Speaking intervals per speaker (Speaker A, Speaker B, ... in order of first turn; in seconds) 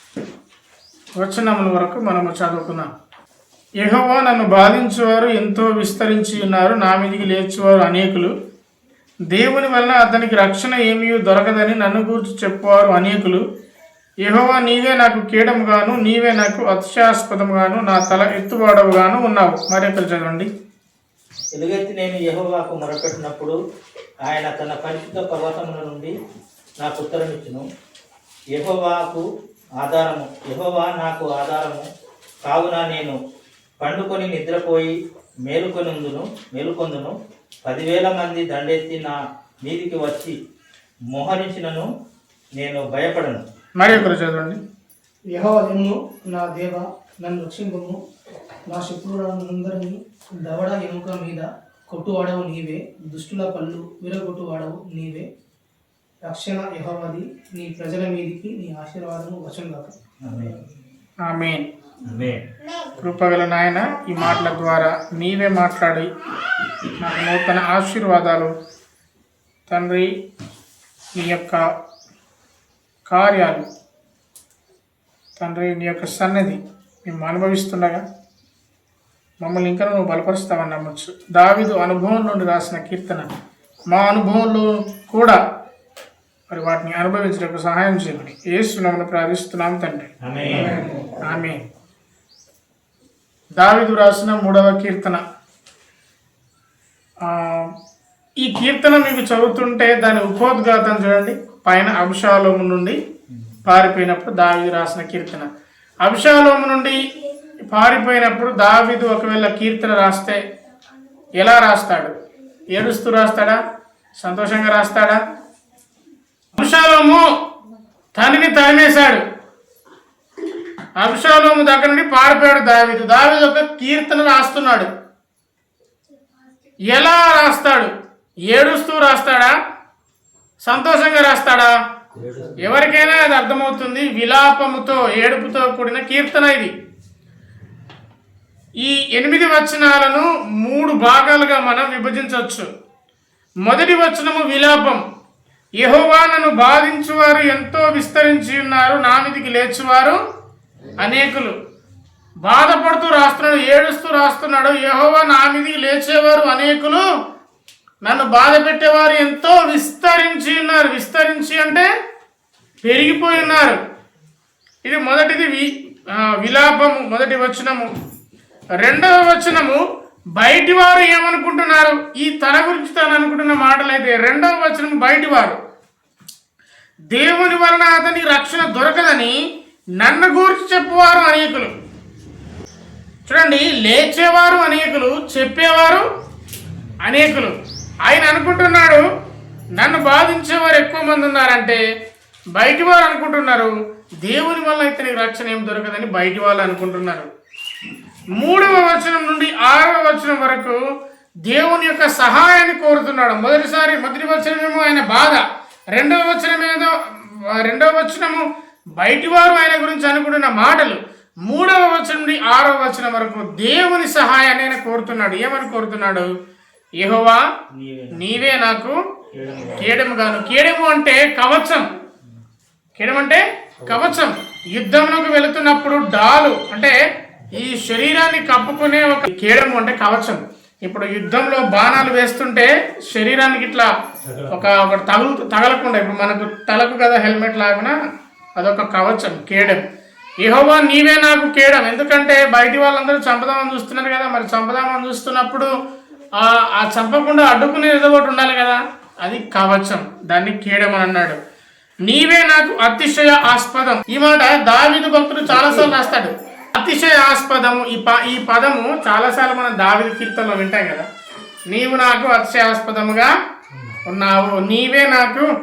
Speaker A: 1.2-2.9, 3.8-8.3, 9.3-13.4, 14.2-20.5, 43.8-44.6, 61.2-61.7, 62.9-66.1, 66.9-68.5, 69.7-70.1, 71.2-71.6, 73.1-73.6, 75.4-78.0, 79.4-83.3, 83.9-85.4, 86.5-91.6, 93.6-95.2, 97.2-97.7, 98.4-103.0, 103.7-105.5, 106.0-107.0, 107.6-110.4, 111.4-112.2, 112.7-113.6, 114.2-115.2, 116.6-117.2, 118.2-119.2, 121.0-124.9, 126.9-127.9, 128.5-129.5, 130.6-131.7, 132.6-136.7, 138.8-142.7, 143.7-145.0, 145.8-150.2, 151.0-151.6, 152.4-157.1, 158.0-161.9, 162.8-163.8, 164.8-167.9, 168.8-169.8, 170.3-175.6, 177.1-179.4, 180.0-181.7, 183.3-186.1, 187.0-187.5, 188.1-189.1, 189.8-191.8, 192.6-197.3, 198.4-200.8, 201.4-206.9, 207.5-208.4, 209.0-216.3, 217.0-217.4, 218.2-219.0, 219.8-221.9, 223.0-227.0, 227.5-233.9, 234.5-237.9, 238.6-239.8, 240.4-245.7, 246.4-251.4, 252.1-261.0, 261.7-263.3, 264.1-265.5
Speaker B: 21.5-23.6, 24.2-26.1, 26.8-27.6, 28.6-29.2, 29.8-31.8, 32.4-33.2, 33.8-34.9, 35.5-37.1, 37.6-40.3, 41.1-41.9, 42.5-43.4, 60.2-60.6, 62.1-62.4, 90.2-90.8, 132.1-132.9, 217.7-218.2, 219.3-219.9, 234.2-234.6, 263.7-264.0
Speaker C: 45.3-48.0, 48.7-55.3, 56.2-60.0